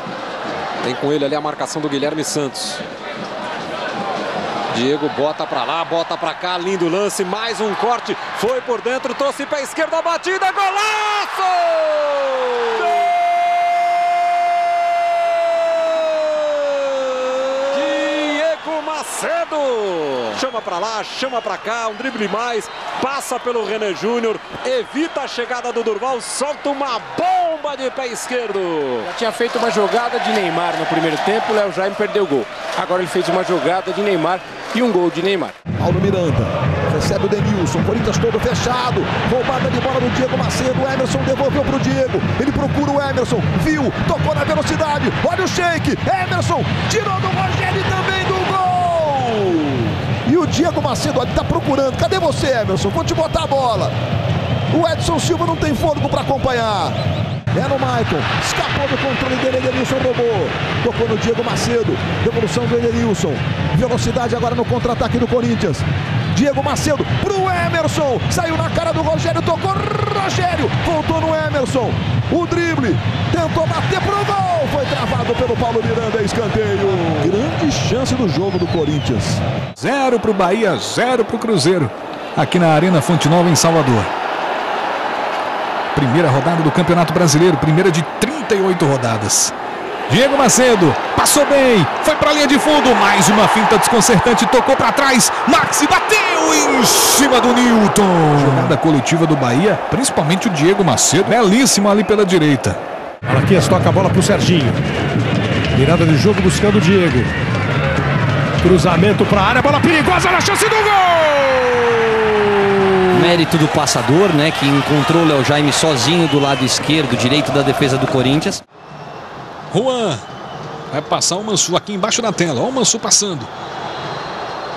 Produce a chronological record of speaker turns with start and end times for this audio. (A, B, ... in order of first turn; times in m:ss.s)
0:00.8-0:02.8 A
0:04.7-0:12.9 A
0:17.7-0:29.1 A
0:29.0-0:35.5 B
0:35.8-0:53.9 C
0:54.7-0:57.0 C
0:57.5-1:19.4 C
1:19.8-1:24.1 D
1:25.9-1:29.5 D
1:30.1-1:42.8 D
1:43.3-1:44.8 E
1:45.8-1:47.3 E
1:48.6-1:52.2 E
1:53.1-1:58.6 F
1:59.7-2:00.2 D
2:00.9-2:03.5 D